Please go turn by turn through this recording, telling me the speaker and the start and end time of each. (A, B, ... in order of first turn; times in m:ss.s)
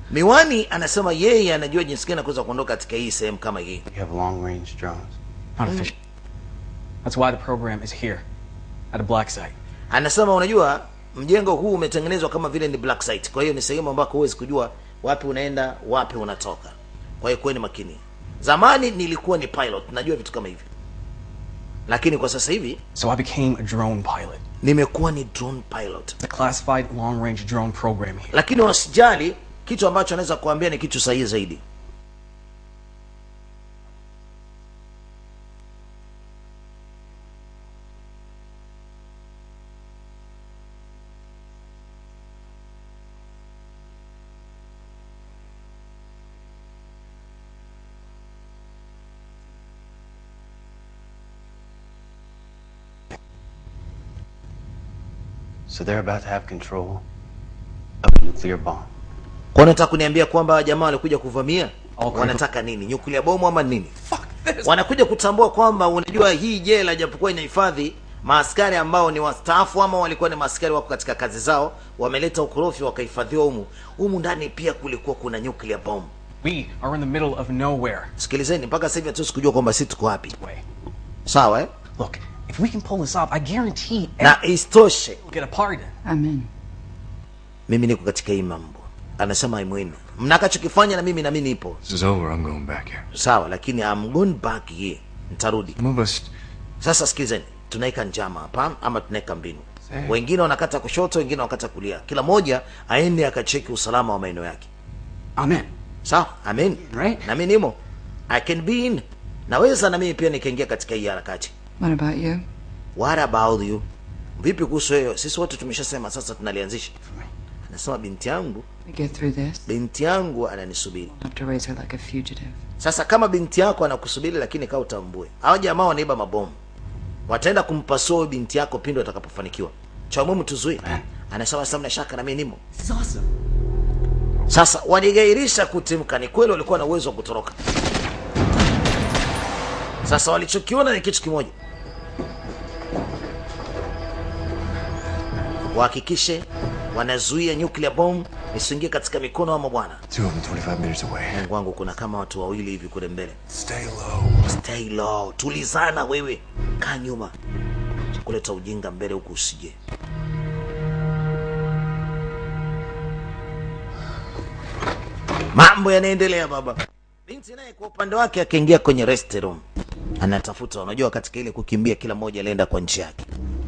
0:00.1-0:03.8 A
0:03.9-0:05.2 B
0:05.6-0:05.9 C
0:05.7-0:05.9 A
0:07.0-0:08.2 C
0:08.9-0:09.6 C
0:09.9-0:20.7 A
0:21.9-0:22.8 A
0:23.0-0:24.4 C
0:24.6-0:26.2 A
0:26.2-0:28.3 C
0:28.3-0:31.6 A
0:55.7-0:57.0 B
0:58.0-0:58.9 B
0:59.5-1:03.9 A
1:02.0-1:02.4 C
1:04.6-1:16.1 A
1:16.4-1:18.1 C
1:18.2-1:20.4 A
1:20.4-1:20.6 C
1:21.3-1:21.7 A
1:22.0-1:24.4 C
1:24.2-1:25.2 A
1:25.2-1:25.9 C
1:26.1-1:26.5 D
1:27.7-1:31.8 A
1:31.8-1:33.0 E
1:33.1-1:35.8 A
1:35.8-1:36.3 E
1:36.8-1:44.7 A
1:45.4-1:45.7 C
1:46.0-1:47.8 A
1:46.9-1:47.2 C
1:48.3-1:51.5 A
1:51.8-1:52.4 D
1:53.0-1:53.8 A
1:54.4-1:56.9 A
1:57.7-1:58.6 A
1:58.9-1:59.6 D
1:59.7-2:01.1 A
2:01.2-2:02.6 D
2:02.8-2:06.6 A
2:07.3-2:12.6 A
2:14.5-2:17.6 A
2:20.0-2:21.5 A
2:25.7-2:30.0 A
2:30.1-2:31.4 E
2:31.3-2:33.4 A
2:34.5-2:37.3 A
2:38.2-2:39.8 A
2:45.5-2:49.6 A
2:50.2-2:53.3 A